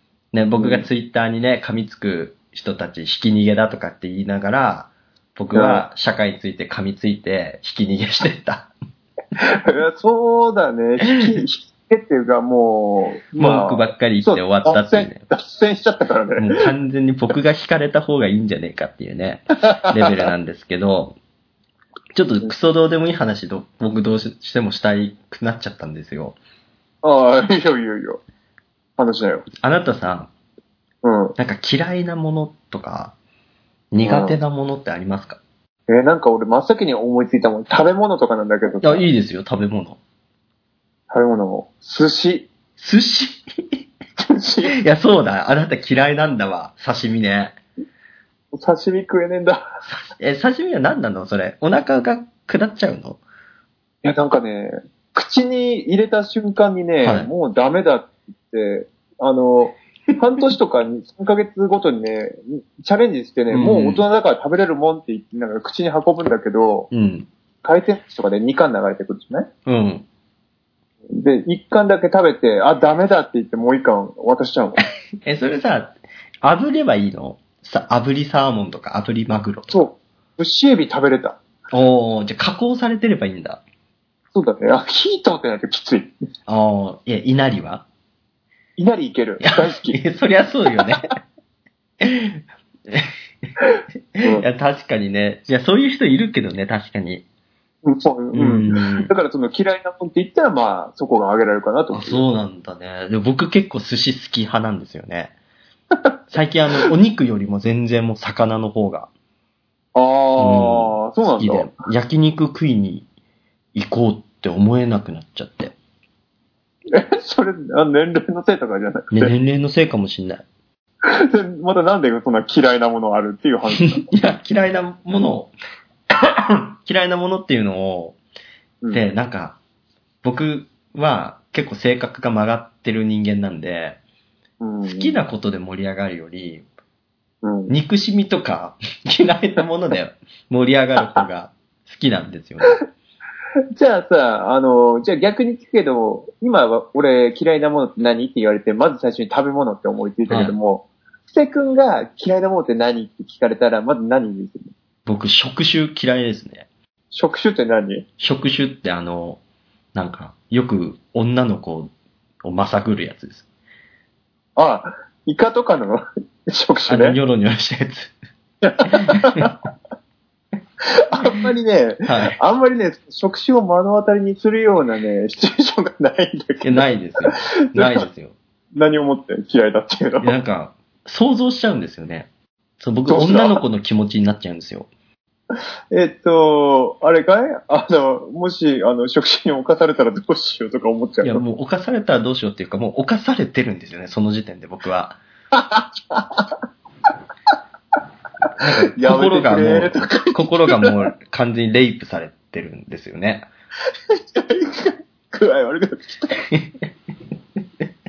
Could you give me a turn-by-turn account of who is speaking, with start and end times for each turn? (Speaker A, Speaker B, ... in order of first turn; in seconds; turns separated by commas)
Speaker A: 0.3-8.7, Speaker B: 0.6-0.9, Speaker B: 5.5-5.8, Speaker B: 9.4-16.6, Speaker A: 11.0-11.4, Speaker A: 13.4-15.2, Speaker A: 16.4-21.2, Speaker A: 22.1-26.4, Speaker B: 27.0-28.2, Speaker B: 29.0-29.4, Speaker A: 29.6-30.3, Speaker B: 31.0-31.4, Speaker A: 31.4-33.1, Speaker A: 33.9-35.4, Speaker B: 34.0-34.4, Speaker B: 35.9-39.0, Speaker A: 38.8-40.0, Speaker B: 41.1-42.5, Speaker A: 42.8-43.4, Speaker B: 44.2-44.8, Speaker A: 44.8-47.6, Speaker B: 48.5-49.6, Speaker A: 49.8-53.2, Speaker B: 54.0-66.9, Speaker A: 57.0-57.3, Speaker A: 63.5-64.0, Speaker A: 66.9-67.3, Speaker B: 67.6-69.5, Speaker A: 69.7-70.1, Speaker B: 71.1-74.8, Speaker A: 75.2-79.9, Speaker B: 79.7-81.4, Speaker A: 81.7-83.6, Speaker B: 84.3-86.2, Speaker A: 86.5-87.8, Speaker B: 88.8-90.0, Speaker A: 89.4-91.1, Speaker A: 92.0-93.5, Speaker A: 94.1-97.2, Speaker B: 97.8-102.2, Speaker A: 98.3-99.1, Speaker A: 101.9-105.3, Speaker A: 106.3-109.1, Speaker B: 110.0-111.7, Speaker A: 110.4-113.0, Speaker A: 113.8-115.8, Speaker B: 116.9-119.3, Speaker A: 119.1-120.4, Speaker B: 121.0-124.0, Speaker A: 123.8-125.5, Speaker A: 126.2-128.2, Speaker A: 128.9-129.6, Speaker A: 130.2-134.0, Speaker B: 134.6-135.2, Speaker A: 134.8-136.6, Speaker B: 137.4-137.7, Speaker A: 137.7-142.8, Speaker B: 141.0-141.2, Speaker B: 143.8-154.7, Speaker A: 150.3-150.6, Speaker A: 155.1-156.7, Speaker B: 157.1-158.0, Speaker A: 158.2-159.4, Speaker A: 159.9-161.9, Speaker A: 162.4-163.5, Speaker B: 164.6-167.2, Speaker A: 166.9-168.1, Speaker B: 168.6-169.6, Speaker A: 168.8-169.5, Speaker B: 170.8-178.1, Speaker A: 172.0-172.4, Speaker A: 176.6-178.3, Speaker B: 178.7-180.3, Speaker A: 180.2-182.3, Speaker A: 182.8-184.9, Speaker B: 183.1-183.6, Speaker B: 185.9-191.4, Speaker A: 191.2-195.2, Speaker B: 195.5-196.6, Speaker A: 198.6-203.5, Speaker B: 198.9-200.9, Speaker B: 204.1-206.4, Speaker A: 206.5-206.8